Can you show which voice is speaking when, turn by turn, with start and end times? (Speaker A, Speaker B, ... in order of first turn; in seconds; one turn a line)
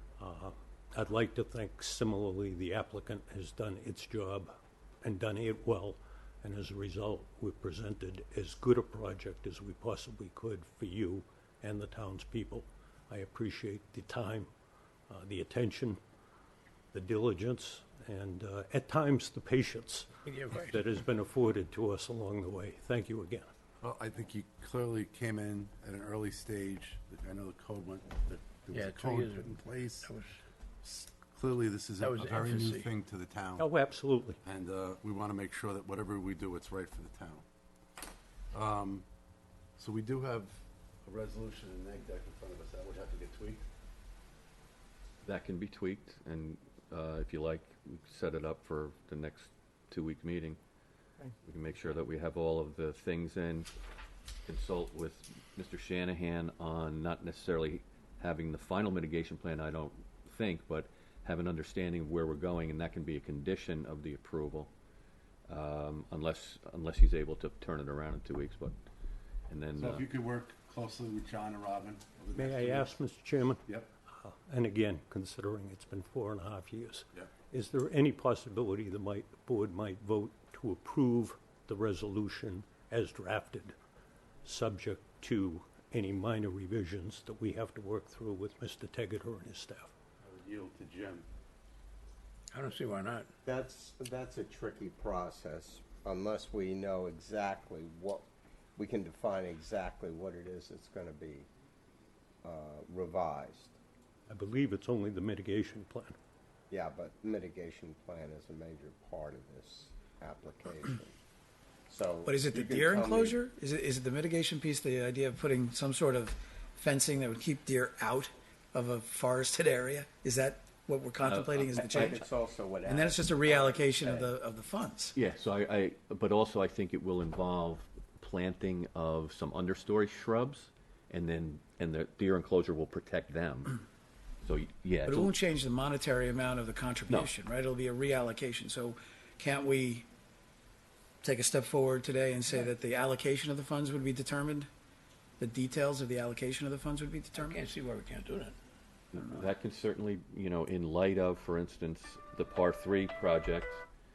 Speaker A: 0.2-14.5
Speaker A: 15.1-16.0
Speaker A: 16.9-23.5
Speaker B: 20.2-20.8
Speaker C: 23.8-30.1
Speaker B: 28.7-30.4
Speaker C: 30.8-33.7
Speaker B: 32.0-32.9
Speaker A: 33.6-34.4
Speaker C: 34.4-37.4
Speaker C: 38.5-39.0
Speaker C: 39.8-43.6
Speaker D: 45.2-50.6
Speaker D: 51.4-53.7
Speaker D: 54.5-64.7
Speaker D: 65.5-68.8
Speaker D: 69.5-70.0
Speaker C: 69.8-73.0
Speaker A: 72.3-73.6
Speaker A: 74.2-83.8
Speaker A: 84.4-89.9
Speaker C: 90.2-91.3
Speaker B: 92.5-93.3
Speaker E: 93.4-98.2
Speaker E: 98.8-101.5
Speaker E: 102.4-103.8
Speaker A: 104.3-106.2
Speaker E: 106.7-111.2
Speaker E: 111.9-113.4
Speaker F: 112.2-122.2
Speaker D: 121.2-122.2
Speaker E: 121.8-124.3
Speaker F: 122.8-125.1
Speaker D: 125.1-133.8
Speaker D: 134.4-135.3
Speaker F: 135.1-140.1
Speaker F: 141.2-144.7
Speaker F: 145.4-147.6
Speaker B: 147.3-148.6
Speaker D: 149.1-153.8